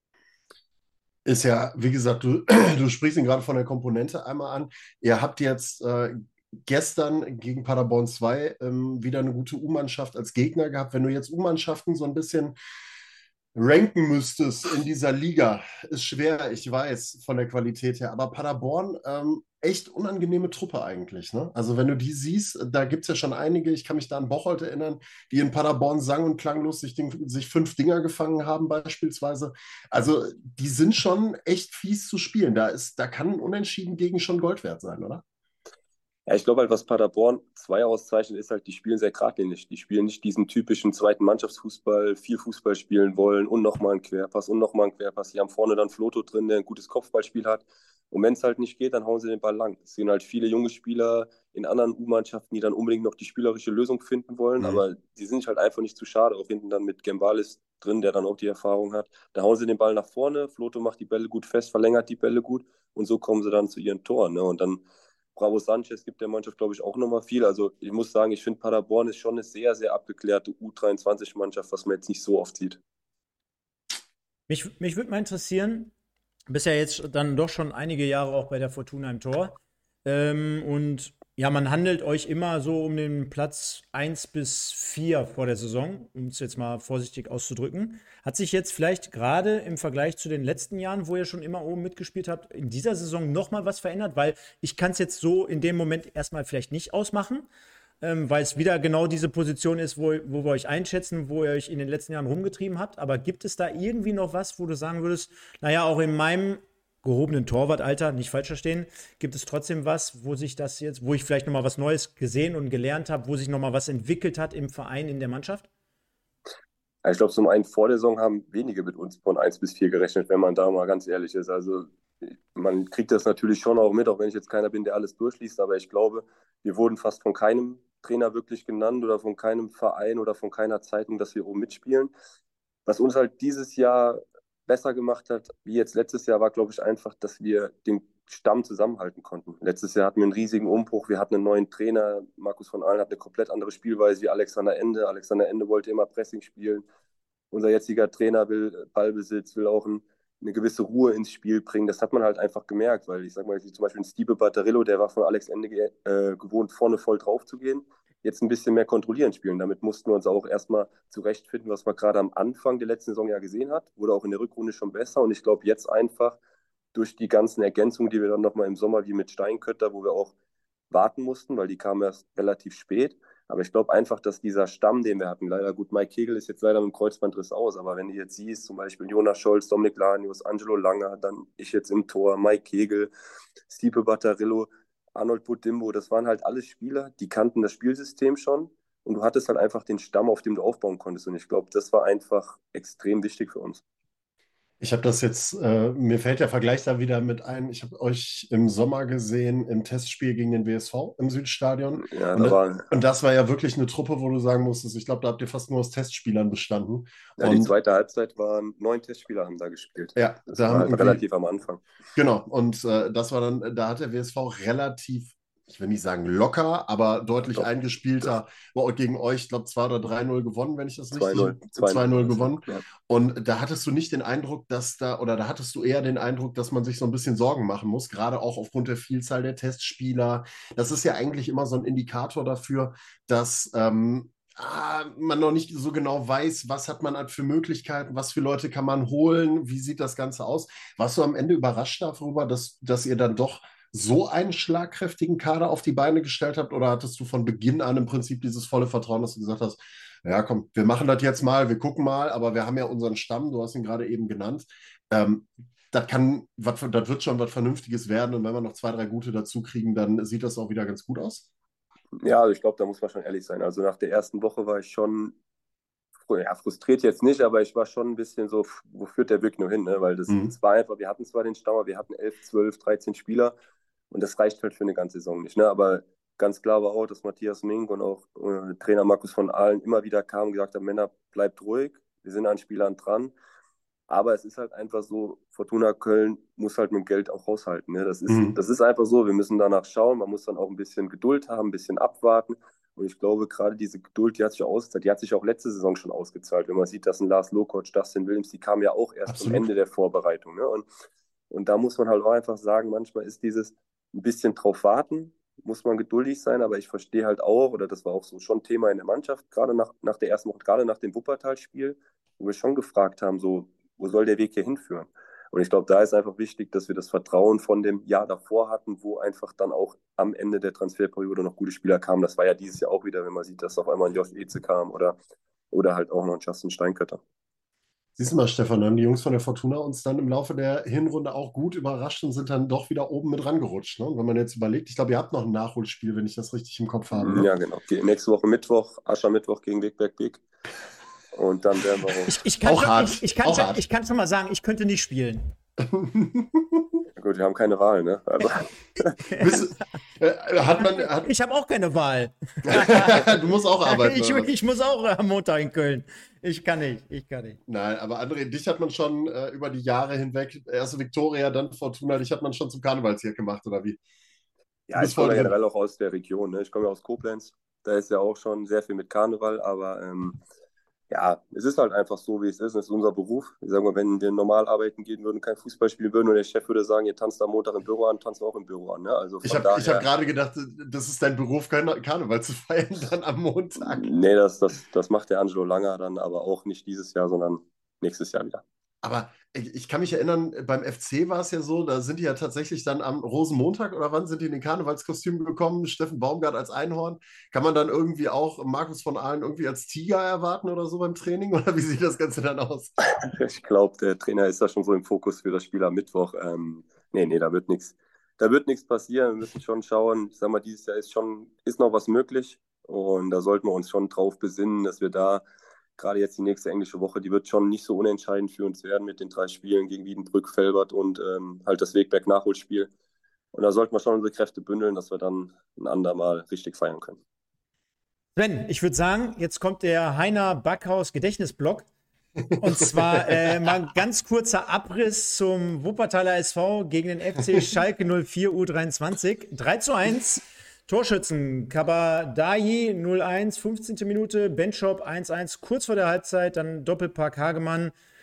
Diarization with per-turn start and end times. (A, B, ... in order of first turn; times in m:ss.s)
0:01.2-0:12.6 A
0:13.5-0:35.2 A
0:36.3-1:04.8 B
1:05.4-1:12.8 B
1:14.5-1:15.9 C
1:16.5-1:37.4 C
1:38.0-1:55.7 C
1:57.0-2:12.1 B
2:12.8-2:26.8 B
2:27.5-2:46.4 B
2:46.9-2:50.3 B
2:50.9-3:03.1 B
3:03.7-3:13.8 B
3:14.8-3:27.7 A
3:22.0-3:22.8 B
3:27.4-3:31.8 B
3:30.2-3:31.2 A
3:32.2-4:21.5 A
3:41.1-3:42.8 B
4:22.2-4:25.3 B
4:26.3-4:33.5 B
4:30.3-4:30.5 A
4:34.1-4:43.3 B
4:44.1-5:00.8 B
4:48.3-4:48.6 A
4:59.3-4:59.6 A
5:01.5-5:25.2 B
5:25.7-5:27.2 B
5:28.2-5:37.5 A
5:37.2-5:40.4 B
5:41.3-5:42.4 B
5:42.3-5:45.5 C
5:42.6-5:43.8 A
5:45.8-5:47.0 A
5:47.2-5:48.7 B
5:49.1-5:49.7 C
5:49.4-5:51.3 A
5:50.8-5:57.6 C
5:52.7-5:54.5 A
5:57.7-6:04.0 A
6:04.9-6:10.4 B
6:05.0-6:05.5 A
6:11.1-6:20.1 B
6:19.4-6:24.1 A
6:23.9-6:28.6 B
6:29.0-6:42.9 A
6:43.1-6:55.4 B
6:56.0-7:02.9 B
7:03.5-7:07.2 B
7:08.4-7:11.9 C
7:12.5-7:13.7 A
7:12.6-7:27.9 C